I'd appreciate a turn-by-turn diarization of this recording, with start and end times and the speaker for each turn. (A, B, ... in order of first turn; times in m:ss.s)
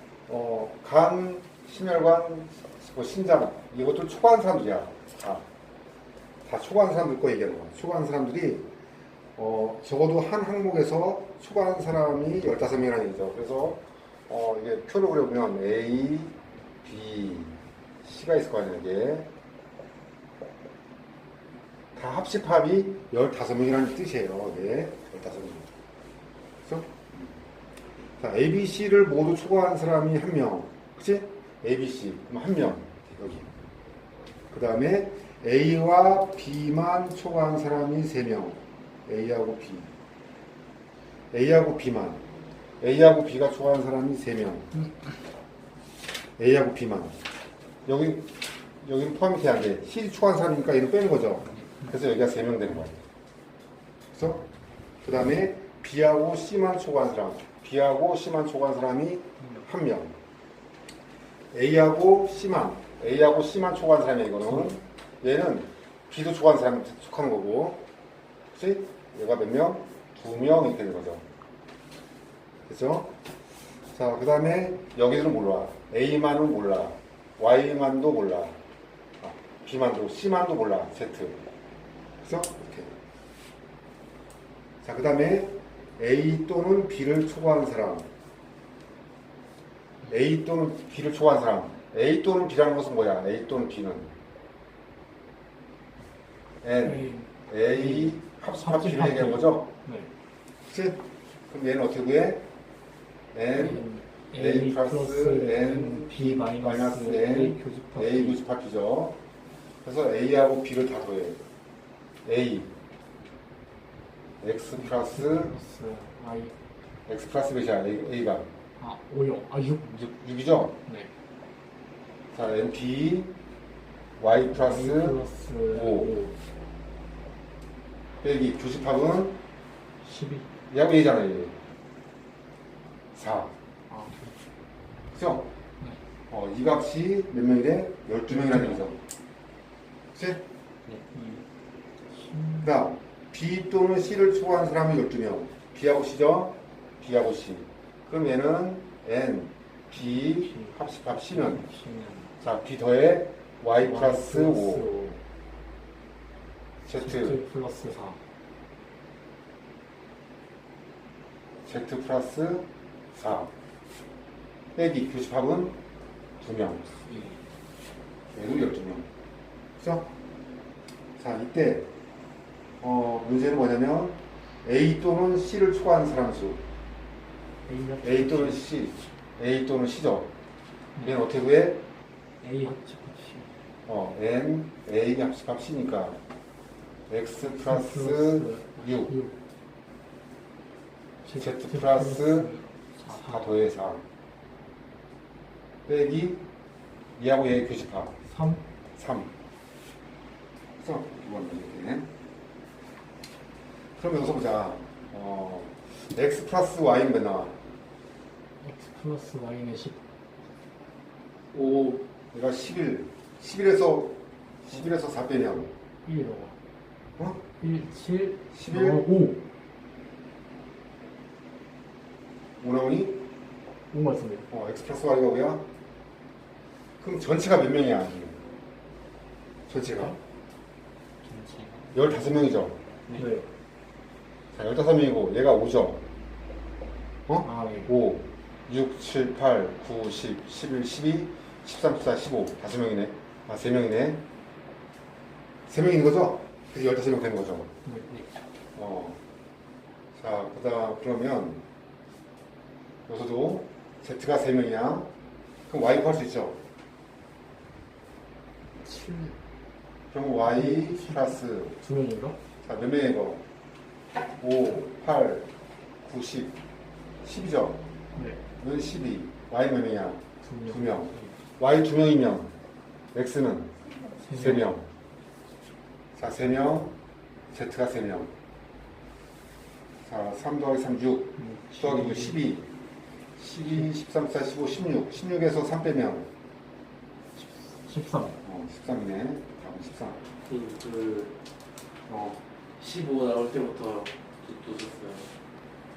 0:00.3-0:05.4 A
0:06.5-0:08.7 A
0:09.4-0:19.3 A
0:22.0-0:25.7 A
0:26.6-0:27.3 A
0:28.2-0:33.5 A
0:34.5-0:39.9 A
0:41.3-0:42.2 A
0:42.8-0:44.7 A
0:46.4-0:47.1 A
0:47.9-0:48.3 A
0:48.8-0:53.0 A
0:54.1-0:54.5 A
0:55.0-1:00.2 A
1:01.5-1:07.8 A
1:04.4-1:04.8 B
1:08.5-1:11.2 A
1:12.7-1:13.1 A
1:13.9-1:18.6 A
1:19.2-1:21.4 A
1:22.2-1:22.9 A
1:24.8-1:28.1 A
1:30.1-1:34.1 A
1:36.6-1:39.7 A
1:36.8-1:40.1 B
1:40.7-1:42.4 A
1:43.3-1:49.2 A
1:43.5-1:48.4 B
1:49.8-1:51.4 A
1:52.2-1:52.7 A
1:54.4-1:55.6 A
1:54.8-1:56.6 B
1:57.1-1:58.5 A
1:58.8-1:59.9 B
1:59.9-2:00.8 A
2:00.8-2:01.1 B
2:02.3-2:03.3 A
2:04.2-2:06.1 A
2:04.5-2:06.4 B
2:08.2-2:09.4 A
2:10.0-2:10.5 B
2:10.7-2:11.5 A
2:13.2-2:13.5 A
2:13.9-2:14.4 B
2:15.1-2:15.5 A
2:16.3-2:19.0 A
2:18.3-2:18.8 B
2:20.2-2:20.4 A
2:21.1-2:21.4 B
2:22.1-2:22.8 B
2:22.6-2:31.7 A
2:30.2-2:32.3 B
2:32.4-2:34.9 A
2:33.8-2:35.2 B
2:36.8-2:37.4 A
2:37.0-2:38.2 B
2:41.6-2:43.5 A
2:44.8-2:45.8 A
2:46.4-2:47.0 A
2:47.0-2:47.4 B
2:48.3-2:49.1 A
2:49.8-2:50.1 A
2:51.2-2:51.9 A
2:52.8-2:56.6 A
2:57.7-2:58.7 B
2:58.0-3:00.3 A
3:01.0-3:01.8 A
3:02.4-3:03.5 B
3:03.9-3:06.2 A
3:07.1-3:09.1 A
3:07.4-3:09.4 B
3:11.2-3:13.5 B
3:11.4-3:12.5 A
3:13.1-3:14.0 A
3:15.8-3:16.4 A
3:17.2-3:18.2 A
3:18.2-3:18.6 B
3:18.9-3:19.3 A
3:20.8-3:22.1 A
3:24.0-3:27.6 A
3:28.6-3:30.0 B
3:31.5-3:32.0 B
3:32.3-3:35.7 A
3:36.0-3:36.6 B
3:37.6-3:39.4 B
3:38.5-3:39.1 A
3:42.6-3:43.2 A
3:43.9-3:44.5 B
3:44.5-3:45.7 A
3:47.0-3:48.4 A
3:49.7-3:50.2 A
3:51.2-3:52.0 C
3:51.9-3:52.8 A
3:53.1-3:53.5 B
3:54.5-3:56.0 A
3:57.3-4:04.2 A
3:57.4-3:57.9 B
4:05.7-4:07.7 A
4:07.8-4:08.1 B
4:08.8-4:09.2 A
4:10.2-4:11.6 A
4:13.1-4:15.1 A
4:15.7-4:16.6 A
4:18.8-4:19.4 B
4:20.1-4:21.8 A
4:20.4-4:22.4 B
4:22.6-4:23.4 A
4:24.4-4:25.5 A
4:26.0-4:26.6 A
4:27.2-4:27.8 A
4:28.2-4:28.4 B
4:28.6-4:32.5 A
4:30.4-4:31.3 B
4:33.1-4:33.8 A
4:34.2-4:34.7 B
4:34.3-4:34.9 A
4:36.2-4:37.0 A
4:37.5-4:38.3 A
4:40.1-4:42.7 A
4:41.4-4:42.4 B
4:43.4-4:46.3 A
4:47.4-4:48.4 B
4:48.4-4:50.2 A
4:50.5-4:51.3 C
4:52.1-4:52.4 A
4:52.8-4:55.3 C